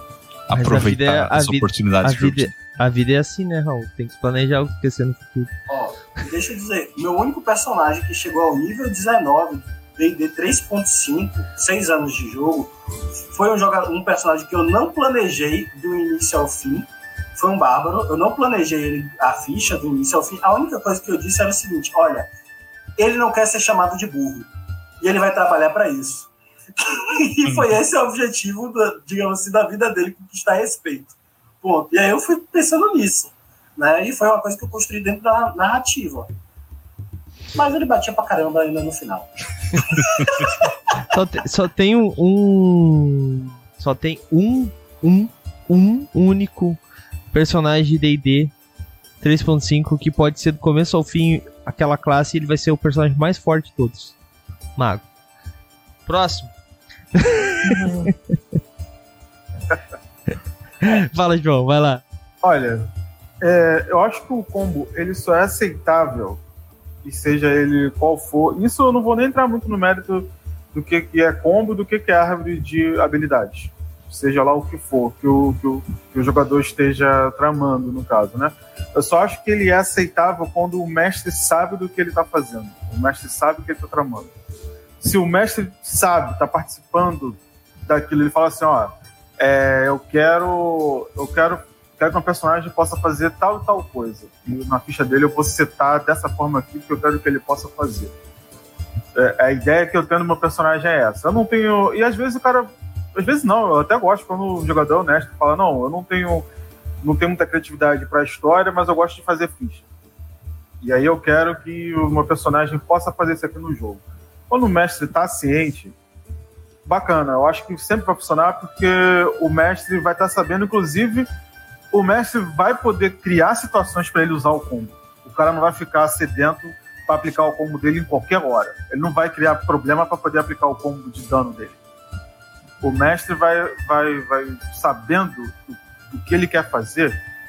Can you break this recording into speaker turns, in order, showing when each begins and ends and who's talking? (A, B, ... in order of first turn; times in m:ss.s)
0:00.5-0:02.6 A
0:00.6-0:05.5 B
0:05.7-0:12.7 C
0:13.3-0:16.9 C
0:17.4-0:22.3 C
0:23.0-0:24.5 C
0:25.0-0:36.3 C
0:37.5-0:40.7 C
0:41.1-0:46.8 B
0:47.3-0:48.5 B
0:49.2-0:54.2 B
0:54.8-0:55.0 B
0:56.1-0:56.5 B
0:57.2-0:58.1 B
0:57.6-0:58.1 D
1:00.8-1:02.0 B
1:02.4-1:02.9 D
1:03.4-1:06.4 D
1:07.0-1:24.3 D
1:25.0-1:38.1 D
1:39.2-1:46.5 D
1:47.0-1:49.8 D
1:50.8-1:55.9 D
1:56.9-2:01.3 D
2:01.9-2:11.8 D
2:12.8-2:17.2 D